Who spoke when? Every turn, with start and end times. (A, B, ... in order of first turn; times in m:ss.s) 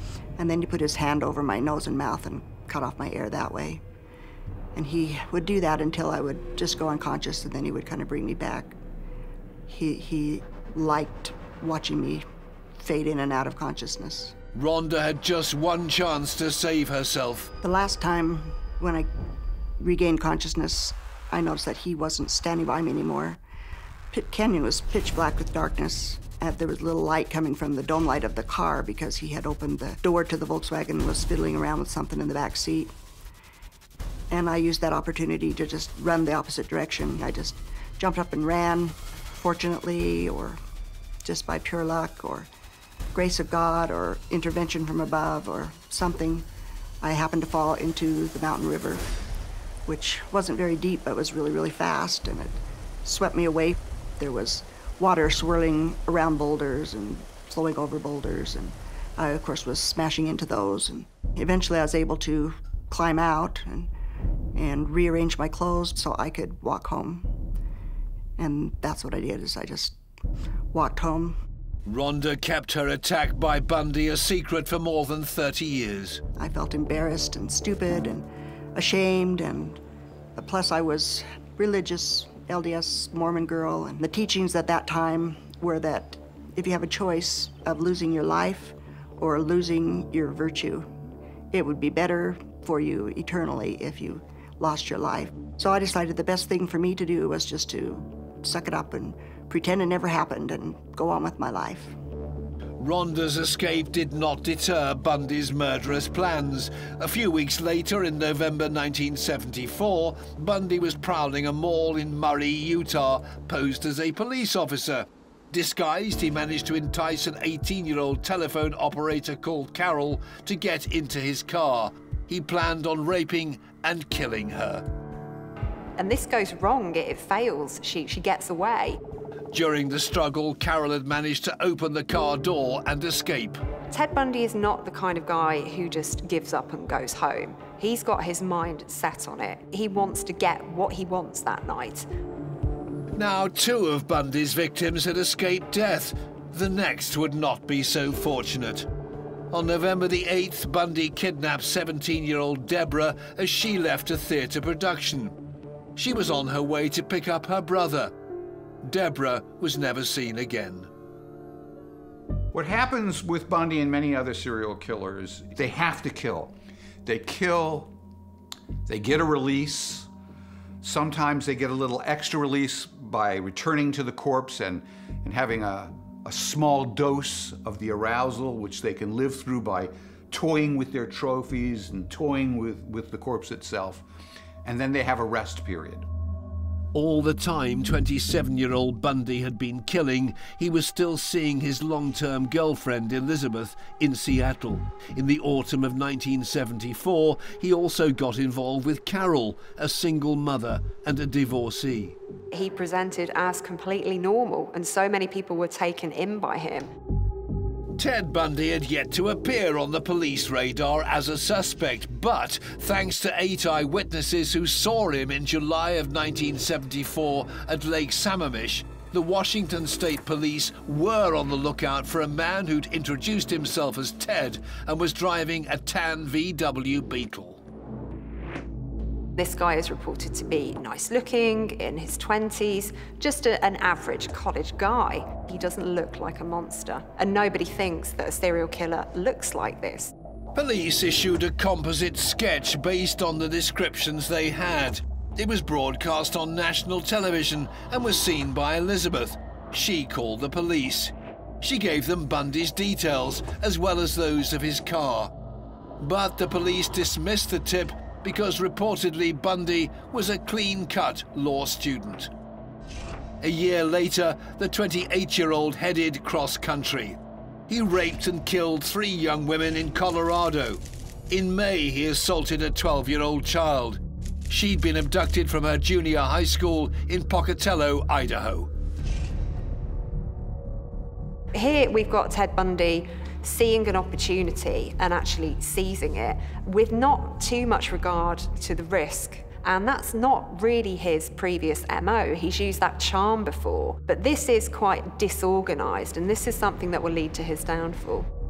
0:00.4-0:03.8 A
0:04.7-0:08.8 A
0:09.7-0:12.2 A
0:12.8-0:14.3 A
0:14.5-0:17.5 B
0:17.6-0:19.1 A
0:19.8-0:23.4 A
0:24.1-0:32.9 A
0:34.3-0:40.6 A
0:41.2-0:42.5 A
0:43.1-0:46.4 A
0:47.0-0:49.0 A
0:49.8-1:03.9 A
1:04.5-1:07.3 A
1:08.4-1:10.0 A
1:10.7-1:11.4 A
1:11.8-1:16.2 B
1:16.4-1:19.8 A
1:20.4-1:30.9 A
1:31.5-1:41.9 A
1:42.8-2:04.8 B
2:06.0-2:09.0 C
2:09.5-2:13.6 B
2:13.9-2:22.1 C
2:23.2-2:28.9 B
2:29.5-2:35.4 B
2:36.0-2:38.1 B
2:38.8-2:40.9 B
2:42.5-2:46.5 D
2:47.0-2:47.9 D
2:48.9-2:50.1 D
2:50.8-3:04.0 D
3:04.6-3:06.1 D
3:06.9-3:22.2 B
3:22.5-3:26.9 C
3:28.0-3:47.6 B
3:49.4-4:00.1 C
4:00.5-4:15.3 B
4:16.0-4:22.3 B
4:23.4-4:27.2 B
4:27.7-4:38.7 B
4:41.5-4:58.3 C